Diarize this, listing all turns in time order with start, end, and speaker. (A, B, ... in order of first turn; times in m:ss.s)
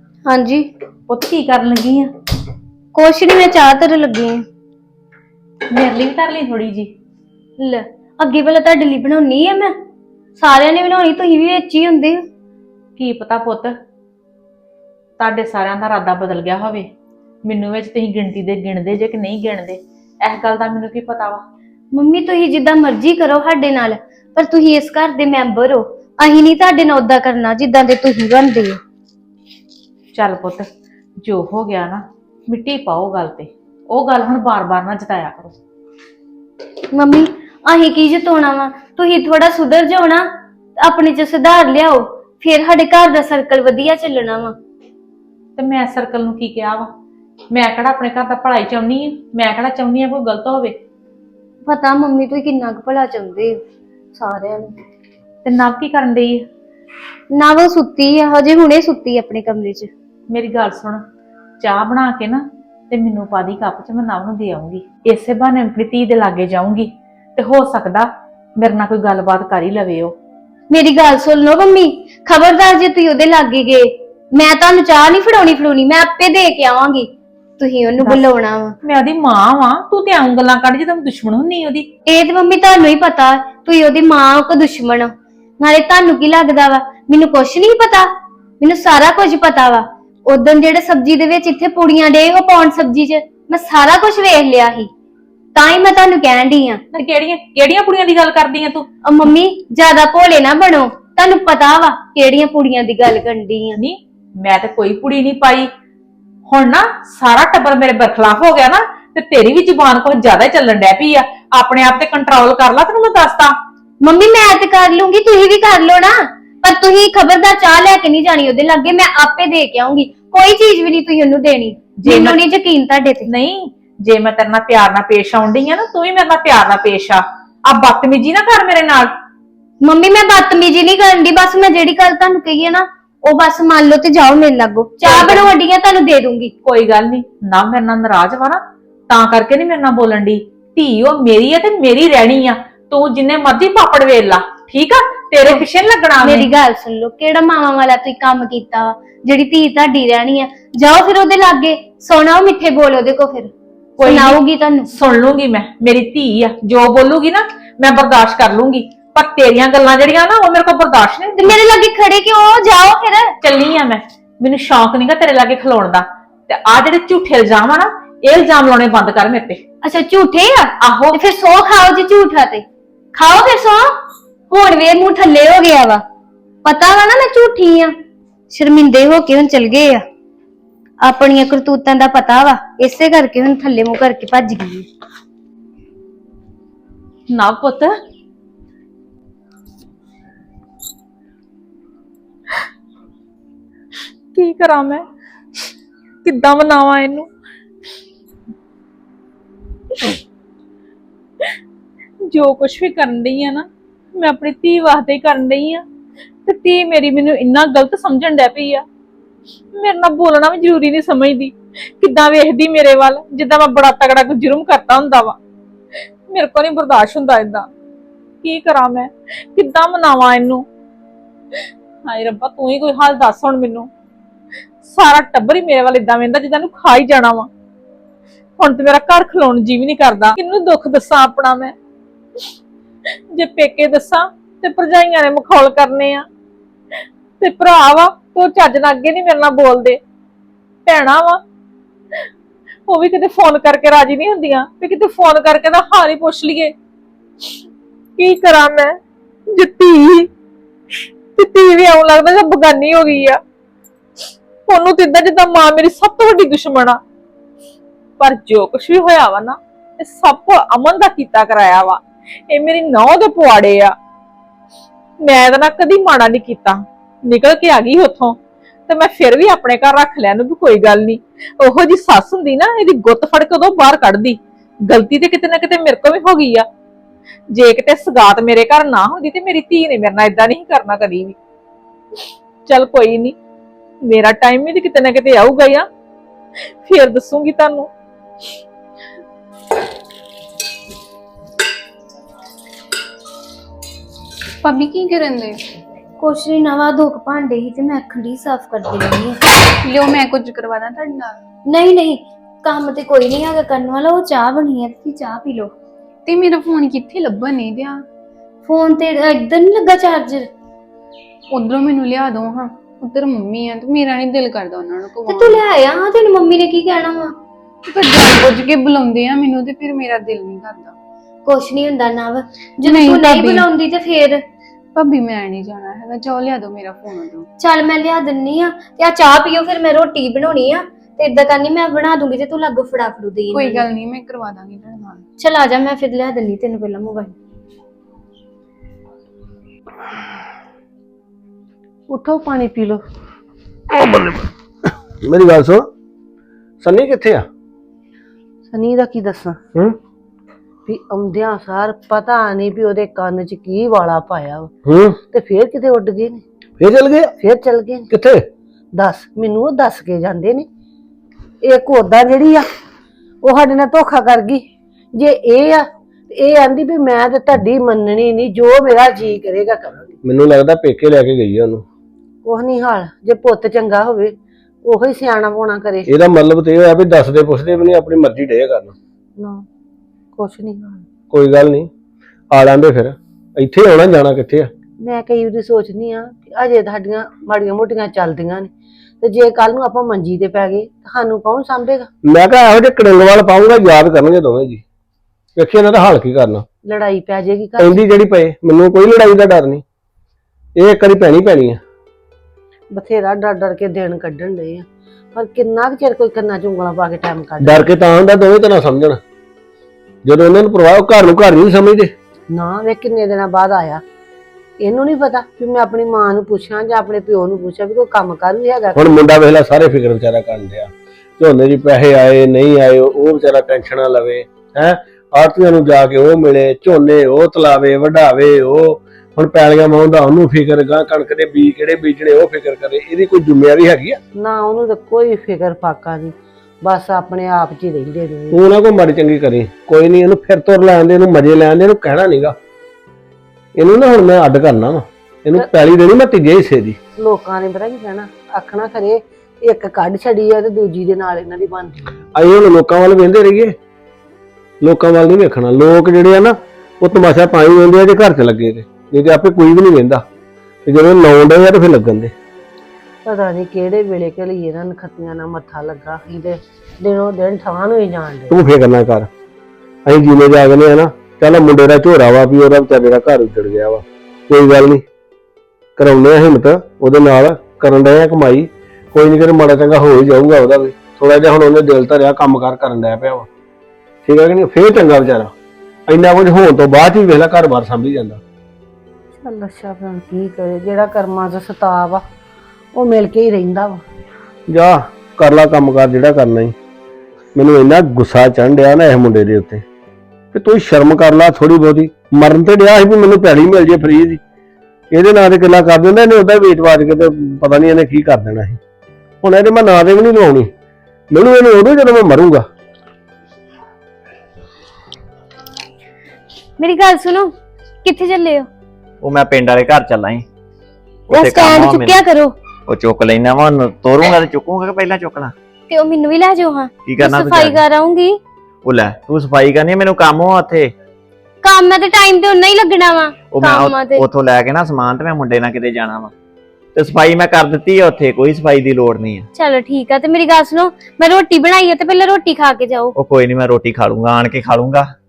0:00.2-0:00.7 A
0:01.1-0:02.1 B
0:02.9-0:04.4 A
0:05.7-0:06.9 B
0:07.6-0:09.7 A
0:10.4-0:12.2 A
0:13.0-0:13.8 B
0:15.2-0:16.8 B
0:17.4-0:21.4 B
0:21.9-0:28.8 A
0:30.1-0:30.7 B
0:31.2-0:35.5 B
0:36.9-0:40.2 A
0:40.8-0:44.6 A
0:45.6-0:46.9 B
0:47.5-0:50.8 B
0:51.6-0:53.6 A
0:54.1-0:54.7 A
0:55.4-0:56.4 B
0:57.3-0:59.9 A
1:00.3-1:01.0 B
1:01.6-1:10.1 B
1:10.7-1:18.7 A
1:18.0-1:21.9 B
1:22.1-1:28.1 A
1:28.6-1:34.9 A
1:35.5-1:36.8 A
1:36.9-1:38.9 B
1:39.0-1:43.8 A
1:43.8-1:45.7 B
1:46.5-1:53.5 B
1:54.0-2:03.2 A
2:02.0-2:02.4 B
2:03.2-2:09.1 B
2:09.8-2:16.5 A
2:15.0-2:15.5 B
2:16.6-2:26.5 B
2:26.2-2:33.5 A
2:34.0-2:41.5 B
2:34.0-2:34.9 A
2:41.4-2:43.3 A
2:43.4-2:49.6 B
2:49.8-2:53.9 A
2:50.8-2:51.2 B
2:54.5-2:56.0 A
2:56.6-2:57.9 A
2:58.5-3:00.0 A
3:01.0-3:04.9 A
3:07.3-3:07.9 B
3:14.3-3:15.0 B
3:16.2-3:17.3 B
3:22.3-3:25.8 B
3:26.4-3:28.8 B
3:29.7-3:35.4 B
3:36.3-3:37.7 B
3:38.4-3:40.6 B
3:42.0-3:43.9 B
3:44.8-3:47.5 B
3:48.6-3:51.7 B
3:53.3-3:56.2 B
3:57.4-4:00.0 B
4:00.8-4:01.4 B
4:02.9-4:06.7 B
4:08.2-4:09.0 B
4:09.5-4:10.3 B
4:11.4-4:13.4 B
4:14.6-4:17.0 B
4:18.2-4:23.9 B
4:25.2-4:36.6 B
4:37.5-4:41.4 B
4:42.6-4:43.4 B
4:44.0-4:45.8 B
4:46.8-4:47.9 B
4:54.6-4:55.6 C
4:56.2-4:59.4 A
4:59.8-5:01.4 C
5:01.7-5:05.7 A
5:06.2-5:08.0 C
5:08.6-5:10.5 A
5:11.5-5:15.6 C
5:15.2-5:17.3 A
5:17.9-5:20.9 C
5:21.4-5:24.4 A
5:22.8-5:23.7 C
5:24.9-5:27.5 C
5:27.6-5:33.8 A
5:33.5-5:35.2 C
5:35.4-5:37.3 A
5:42.1-5:43.0 D
5:43.9-5:44.5 E
5:45.2-5:45.9 E
5:46.8-5:47.5 E
5:48.7-5:49.6 D
5:50.9-5:54.7 D
5:54.8-5:55.2 E
5:55.2-5:56.4 D
5:56.8-5:57.3 E
5:57.4-5:58.1 D
5:58.1-5:58.4 E
5:58.9-6:00.6 D
6:01.6-6:02.7 D
6:03.4-6:04.6 D
6:05.1-6:10.1 D
6:10.2-6:11.8 E
6:12.4-6:14.3 D
6:14.8-6:16.1 D
6:16.1-6:18.9 E
6:19.4-6:19.6 D
6:20.4-6:21.0 D
6:21.3-6:21.9 E
6:22.5-6:24.7 E
6:25.0-6:28.7 D
6:29.2-6:32.1 D
6:32.2-6:34.8 E
6:35.6-6:36.6 E
6:36.8-6:38.0 D
6:37.8-6:39.8 E
6:40.8-6:41.8 E
6:42.9-6:47.9 D
6:47.6-6:49.2 E
6:50.2-6:52.1 E
6:52.5-6:54.0 D
6:54.8-6:59.1 D
6:58.9-7:14.2 E
7:14.4-7:18.6 D
7:18.5-7:22.6 E
7:23.8-7:27.0 E
7:27.2-7:32.2 D
7:32.3-7:33.7 E
7:34.8-7:40.2 E
7:40.8-7:42.3 E
7:43.2-7:48.6 D
7:48.5-7:49.3 E
7:50.0-7:55.0 E
7:56.0-8:03.5 E
8:04.2-8:05.5 E
8:06.1-8:08.4 E
8:09.4-8:12.2 D
8:12.9-8:14.0 D
8:14.7-8:16.7 E
8:17.5-8:19.8 E
8:20.5-8:24.4 E
8:25.1-8:28.8 E
8:29.4-8:30.7 E
8:31.3-8:32.6 E
8:36.8-8:38.7 A
8:39.2-8:40.4 F
8:41.3-8:42.3 F
8:41.3-8:42.6 A
8:42.9-8:45.5 F
8:45.9-8:48.4 A
8:47.0-8:47.8 F
8:48.8-8:50.9 F
8:51.6-8:54.2 A
8:53.5-8:56.3 F
8:56.9-8:59.5 F
8:59.5-9:03.2 A
9:03.1-9:05.1 F